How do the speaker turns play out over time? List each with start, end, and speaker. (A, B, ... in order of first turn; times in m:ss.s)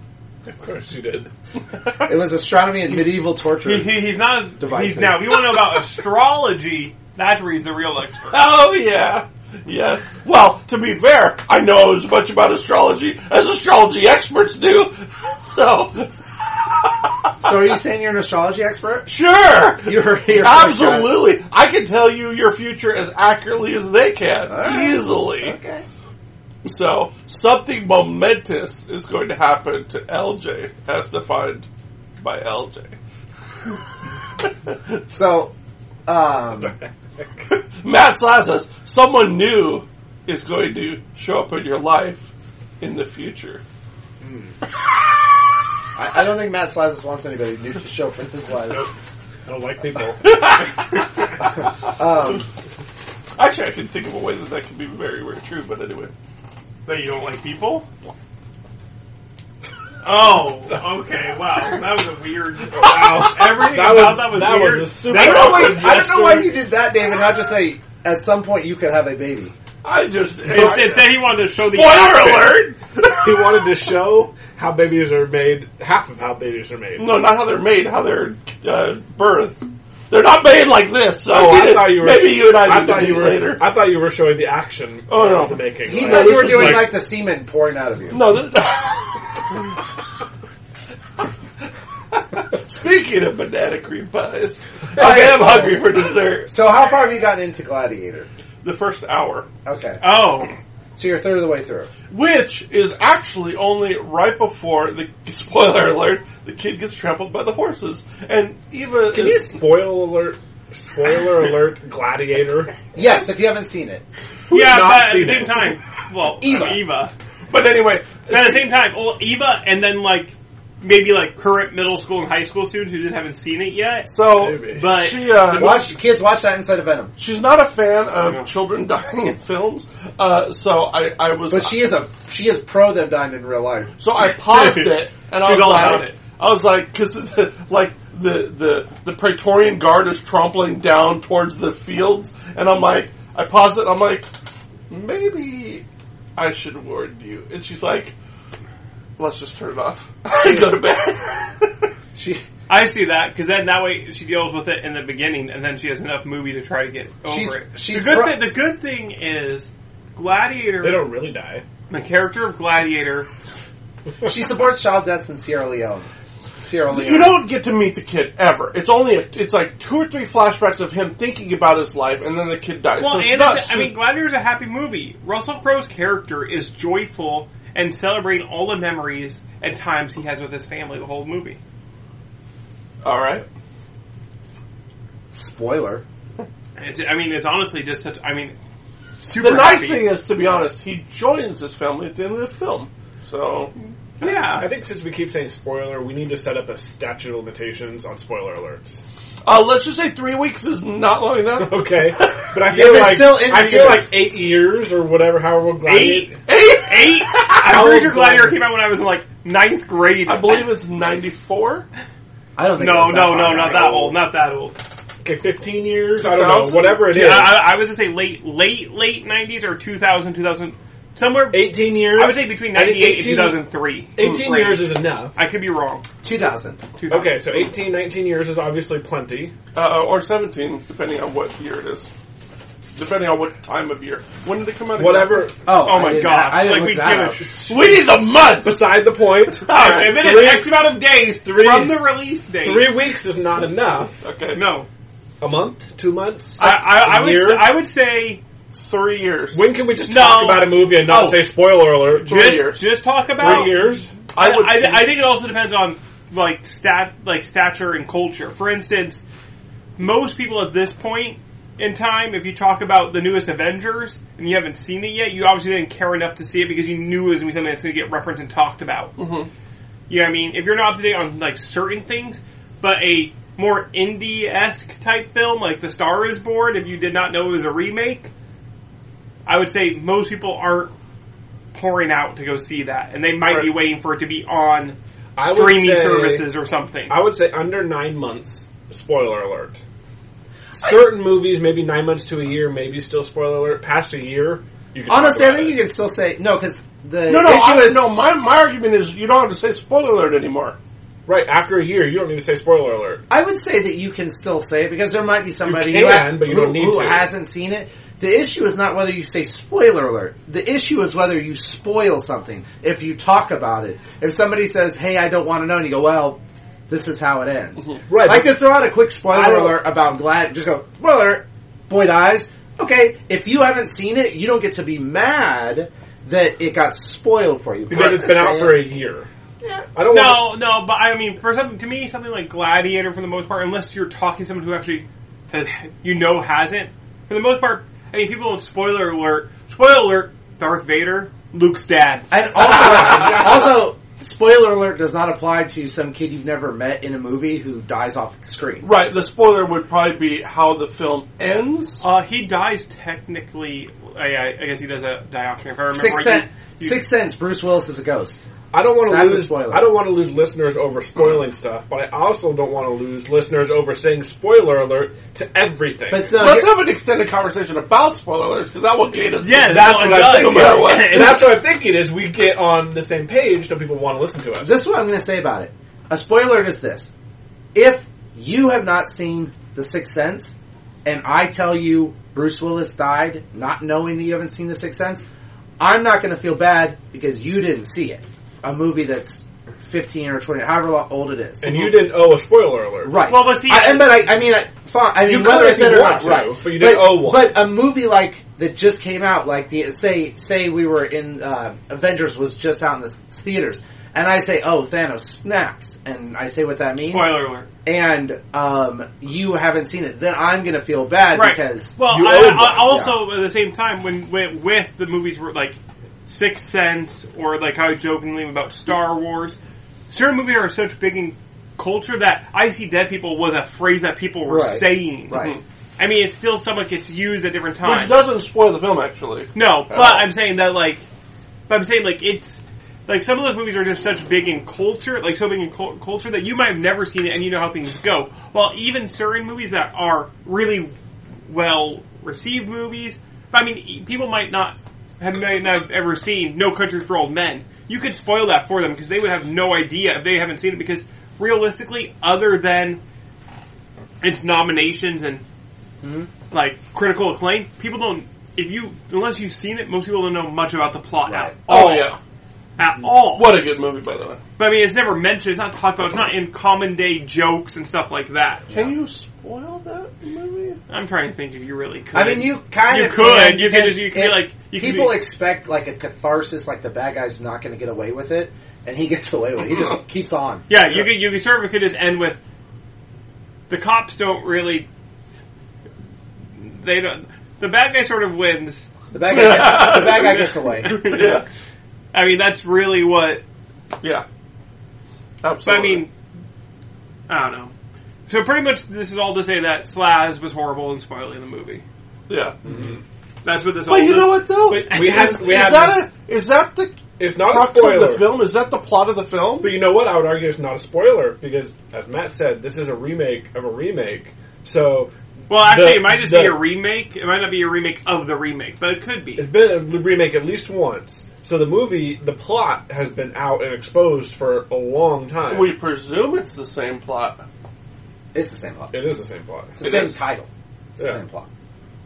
0:00.4-0:01.3 A
0:02.0-0:05.4 B
0:03.6-0:08.5 C
0:08.3-0:17.3 D
0:17.4-0:21.2 B
0:19.1-0:25.6 D
0:24.5-0:25.8 B
0:26.6-0:31.7 D
0:32.2-0:32.9 D
0:34.4-0:35.0 D
0:35.1-0:35.5 B
0:36.0-0:36.8 B
0:37.5-0:42.2 D
0:42.8-0:43.6 D
0:44.2-0:44.5 A
0:45.9-0:48.9 B
0:49.4-0:50.4 A
0:50.2-0:51.1 D
0:51.8-0:52.4 B
0:53.4-0:56.1 D
0:56.8-0:57.8 C
1:00.0-1:06.1 C
1:02.7-1:06.3 A
1:05.1-1:09.5 B
1:05.2-1:06.2 D
1:09.8-1:13.5 D
1:10.4-1:12.7 C
1:13.2-1:17.2 A
1:17.0-1:23.6 D
1:21.3-1:26.9 A
1:25.1-1:26.9 D
1:25.8-1:28.4 B
1:28.1-1:29.4 D
1:32.1-1:36.5 D
1:34.9-1:35.9 B
1:36.5-1:38.3 B
1:38.6-1:39.5 D
1:39.6-1:40.0 B
1:40.0-1:40.5 C
1:40.9-1:41.9 B
1:42.1-1:49.6 D
1:49.1-1:52.7 A
1:52.9-1:54.0 B
1:54.5-1:55.7 A
1:54.5-1:57.1 C
1:56.4-1:56.8 B
1:57.5-1:58.7 D
1:58.3-2:05.8 C
2:04.1-2:05.9 D
2:04.4-2:04.8 A
2:05.5-2:07.1 B
2:07.2-2:11.8 D
2:11.5-2:13.9 B
2:14.0-2:24.3 D
2:14.4-2:16.2 C
2:24.9-2:25.8 D
2:26.4-2:28.1 D
2:29.2-2:31.8 D
2:30.4-2:30.7 B
2:32.1-2:32.4 B
2:32.7-2:41.1 C
2:37.2-2:38.5 B
2:40.8-2:41.6 A
2:41.9-2:43.3 C
2:44.2-2:46.1 B
2:46.6-2:47.4 B
2:46.9-2:53.9 D
2:53.0-3:01.6 C
3:03.0-3:03.4 D
3:05.3-3:06.0 B
3:06.8-3:08.6 C
3:09.2-3:10.1 C
3:09.4-3:13.7 D
3:14.2-3:14.7 C
3:14.2-3:19.0 A
3:19.4-3:22.4 D
3:21.6-3:26.4 A
3:22.6-3:24.1 B
3:25.8-3:30.7 C
3:26.5-3:27.9 D
3:27.6-3:28.6 A
3:30.2-3:31.8 D
3:32.6-3:34.1 B
3:32.8-3:34.8 C
3:35.2-3:37.7 A
3:36.2-3:37.0 D
3:36.9-3:46.0 C
3:41.5-3:43.6 A
3:44.1-3:45.3 A
3:46.2-3:46.8 B
3:47.0-3:47.6 C
3:47.1-3:49.5 A
3:49.7-3:52.1 D
3:52.9-3:55.5 D
3:55.0-3:55.6 A
3:55.6-3:57.4 B
3:55.8-3:57.9 C
3:57.6-3:58.9 D
3:58.6-4:00.8 A
3:59.6-4:00.2 D
3:59.7-4:02.9 C
4:01.4-4:02.0 A
4:02.6-4:04.1 A
4:04.2-4:04.6 D
4:04.5-4:04.9 C
4:05.4-4:07.7 A
4:06.6-4:08.4 C
4:08.7-4:09.7 D
4:09.5-4:12.4 A
4:10.1-4:11.5 C
4:12.2-4:19.2 C
4:12.2-4:12.9 D
4:13.4-4:14.1 A
4:13.4-4:15.1 D
4:20.0-4:29.1 C
4:29.2-4:29.5 D
4:30.1-4:38.3 C
4:39.4-4:40.9 C
4:41.7-4:47.2 C
4:45.4-4:46.4 A
4:47.1-4:49.8 A
4:50.8-4:55.8 A
4:55.1-4:58.1 B
4:57.2-5:00.8 D
5:01.2-5:03.2 A
5:03.3-5:28.8 B
5:05.6-5:07.3 A
5:18.1-5:18.7 A
5:19.3-5:19.8 A
5:27.9-5:29.3 A
5:29.9-5:30.5 A
5:30.1-5:42.3 C
5:42.3-5:48.9 B
5:48.8-5:52.0 D
5:52.0-5:57.0 C
5:55.9-5:58.4 B
5:58.7-6:06.4 A
5:59.1-5:59.9 B
6:06.1-6:06.8 B
6:06.4-6:11.4 D
6:09.4-6:11.5 C
6:09.6-6:14.7 A
6:14.6-6:17.1 B
6:17.7-6:25.2 B
6:25.8-6:31.9 B
6:31.6-6:33.2 A
6:33.0-6:53.2 B
6:33.2-6:34.3 C
6:35.2-6:37.6 A
6:47.1-6:47.7 C
6:51.3-6:59.6 C
6:52.1-6:52.8 A
7:00.1-7:08.2 C
7:04.4-7:05.6 B
7:07.8-7:10.3 D
7:09.5-7:11.0 C
7:11.7-7:20.9 C
7:21.5-7:33.0 C
7:34.2-7:35.4 C
7:36.0-7:36.3 B
7:36.5-7:42.1 C
7:41.3-7:41.5 B
7:41.7-7:42.2 D
7:42.8-7:43.6 C
7:43.2-7:44.4 D
7:44.6-7:48.6 C
7:48.7-7:50.8 D
7:50.9-7:55.2 C
7:52.1-8:00.7 B
8:00.7-8:02.4 C
8:03.7-8:04.9 C
8:06.6-8:08.9 C
8:09.1-8:11.1 B
8:09.3-8:11.4 D
8:09.5-8:11.4 C
8:12.1-8:13.4 C
8:15.4-8:16.0 D
8:15.6-8:16.1 C
8:17.3-8:17.7 C
8:18.3-8:21.8 C
8:22.3-8:22.6 D
8:22.6-8:23.0 A
8:23.4-8:25.6 C
8:23.9-8:29.7 D
8:24.7-8:26.0 A
8:27.2-8:28.3 A
8:29.6-8:36.6 A
8:35.5-8:39.5 C
8:39.4-8:45.7 A
8:45.5-8:47.4 D
8:48.3-8:48.9 B
8:48.9-8:49.8 A
8:49.8-8:51.5 B
8:49.8-8:50.1 D